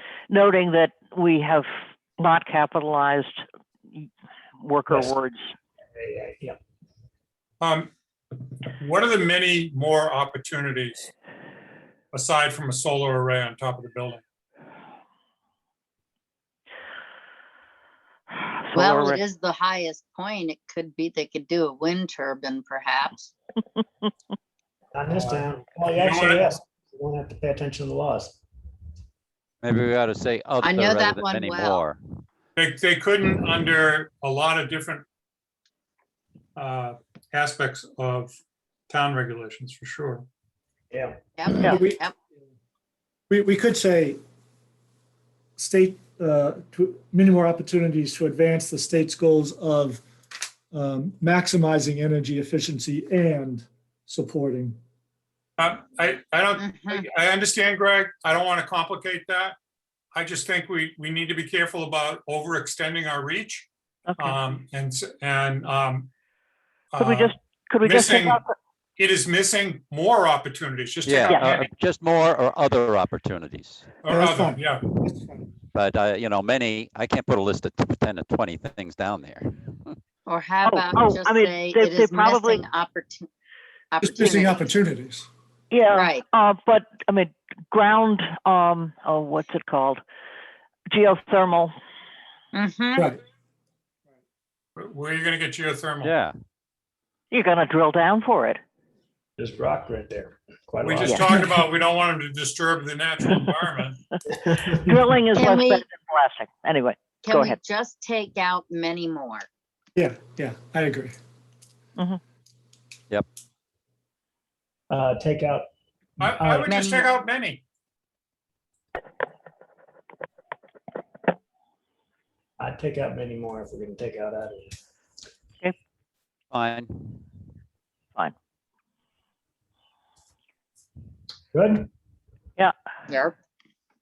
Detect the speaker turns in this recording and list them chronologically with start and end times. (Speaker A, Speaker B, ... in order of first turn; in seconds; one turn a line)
Speaker A: 0.3-5.4
Speaker B: 4.9-5.1
Speaker B: 5.9-6.6
Speaker C: 7.6-11.1
Speaker C: 12.1-14.2
Speaker A: 18.7-19.2
Speaker D: 18.7-23.3
Speaker B: 24.9-28.4
Speaker C: 25.9-26.5
Speaker E: 29.6-32.0
Speaker D: 30.6-31.8
Speaker C: 32.5-35.0
Speaker C: 36.5-38.3
Speaker C: 38.9-40.2
Speaker B: 40.9-41.7
Speaker D: 41.4-42.1
Speaker F: 41.6-42.0
Speaker F: 43.3-44.2
Speaker F: 45.6-50.0
Speaker F: 50.7-54.8
Speaker C: 55.6-59.6
Speaker D: 56.6-57.1
Speaker C: 60.1-66.1
Speaker A: 64.1-64.4
Speaker C: 66.9-68.4
Speaker A: 67.0-68.5
Speaker C: 69.0-71.7
Speaker E: 71.0-74.0
Speaker A: 71.3-71.5
Speaker C: 74.0-74.8
Speaker F: 74.1-75.5
Speaker E: 75.7-79.9
Speaker D: 80.2-83.3
Speaker A: 80.6-82.7
Speaker D: 83.9-84.7
Speaker F: 84.0-85.3
Speaker A: 85.7-90.0
Speaker D: 85.9-86.2
Speaker A: 90.9-91.7
Speaker D: 92.5-93.1
Speaker F: 93.0-93.2
Speaker C: 94.8-96.1
Speaker E: 96.0-96.3
Speaker A: 97.3-98.6
Speaker B: 99.4-101.5
Speaker C: 100.8-104.0
Speaker A: 101.0-101.3
Speaker B: 104.3-104.9
Speaker A: 104.8-107.6
Speaker D: 105.3-105.8
Speaker D: 107.2-109.5
Speaker F: 110.0-111.1
Speaker B: 114.9-115.7
Speaker C: 116.2-117.6
Speaker B: 116.2-116.9
Speaker D: 116.7-117.1
Speaker B: 122.6-124.8
Speaker E: 126.5-127.2
Speaker B: 131.5-131.9
Speaker D: 133.1-133.3